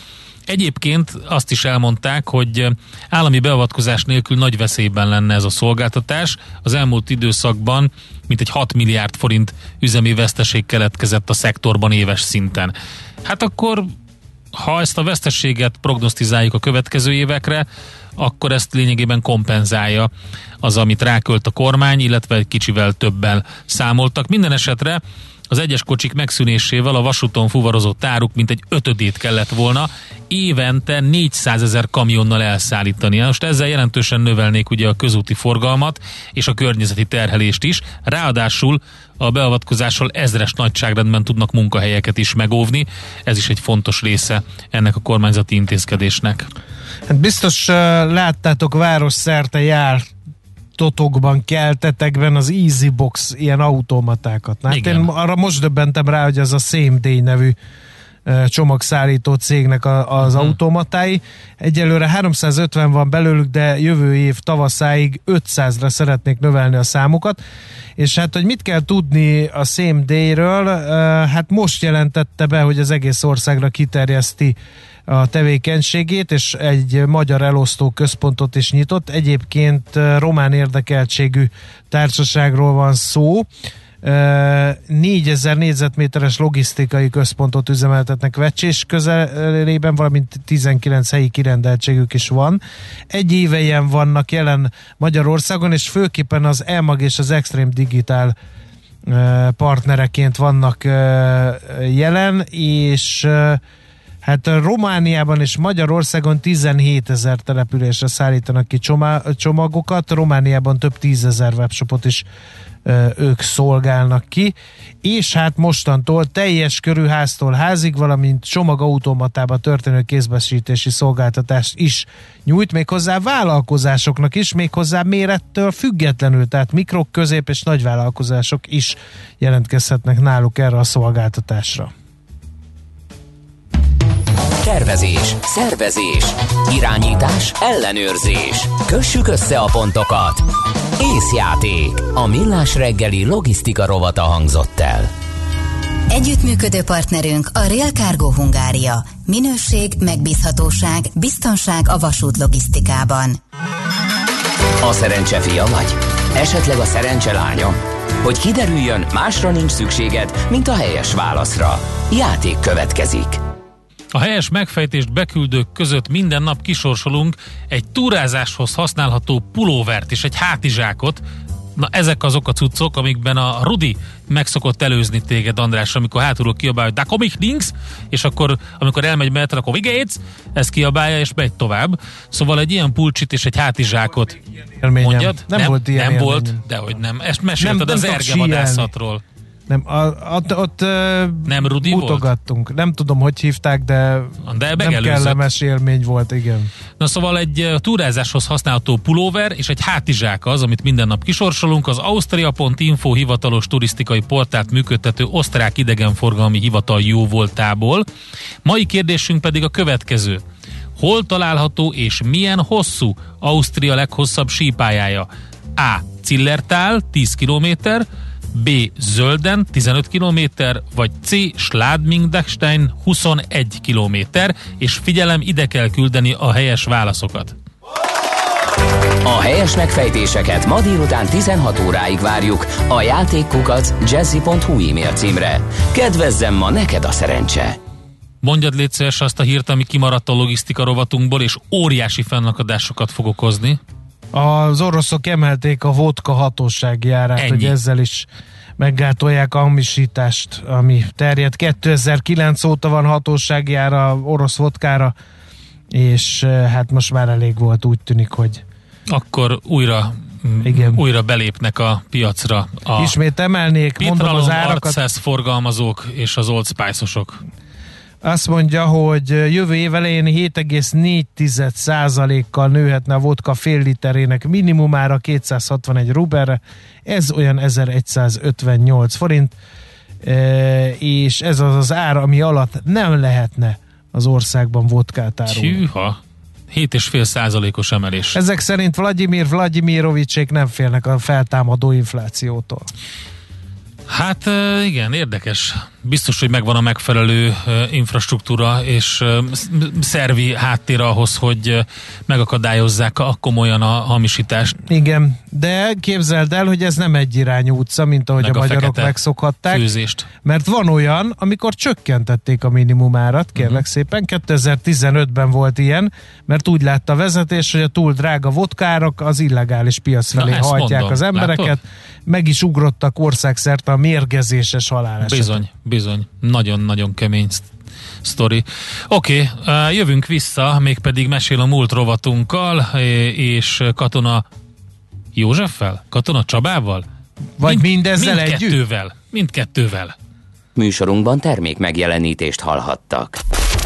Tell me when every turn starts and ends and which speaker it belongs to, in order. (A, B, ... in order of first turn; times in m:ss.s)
0:00.5-0:13.9 A
0:14.5-0:17.6 A
0:18.2-0:20.1 A
0:20.6-0:46.5 A
0:47.1-0:50.0 B
0:50.8-0:57.6 B
0:54.7-0:55.1 A
0:58.2-1:07.4 B
1:00.2-1:00.5 A
1:08.0-1:14.6 B
1:15.1-1:23.5 B
1:24.0-1:38.3 B
1:39.1-1:43.6 B
1:44.2-1:52.2 B
1:52.8-2:11.9 B
2:14.6-2:20.4 C
2:21.0-2:25.1 C
2:26.1-2:33.4 D
2:34.8-2:43.4 C
2:44.1-2:51.2 A
2:51.8-3:04.4 A
3:04.8-3:06.6 B
3:05.0-3:09.2 A
3:07.6-3:08.9 B
3:09.7-3:16.7 B
3:11.5-3:12.3 A
3:14.4-3:15.4 A
3:17.0-3:28.0 A
3:28.6-3:30.4 A
3:31.0-3:47.5 A
3:49.2-3:57.8 C
3:58.4-4:03.8 A
4:04.3-4:08.3 B
4:07.4-4:07.7 A
4:08.8-4:15.1 B
4:15.9-4:18.6 B
4:19.1-4:23.2 A
4:20.6-4:21.0 B
4:23.0-4:25.0 B
4:24.0-4:27.4 A
4:28.2-4:39.5 B
4:40.2-4:45.8 B
4:45.5-4:46.2 A
4:46.7-4:48.4 A
4:48.3-4:52.9 B
4:54.1-5:04.8 A
5:04.9-5:09.8 B
5:08.4-5:09.1 A
5:09.7-5:10.3 A
5:10.4-5:25.6 B
5:13.6-5:13.8 A
5:20.3-5:21.7 A
5:25.2-5:27.7 A
5:28.2-5:34.4 A
5:35.3-5:37.0 A
5:37.6-5:38.8 B
5:37.6-5:40.1 A
5:40.8-5:43.4 C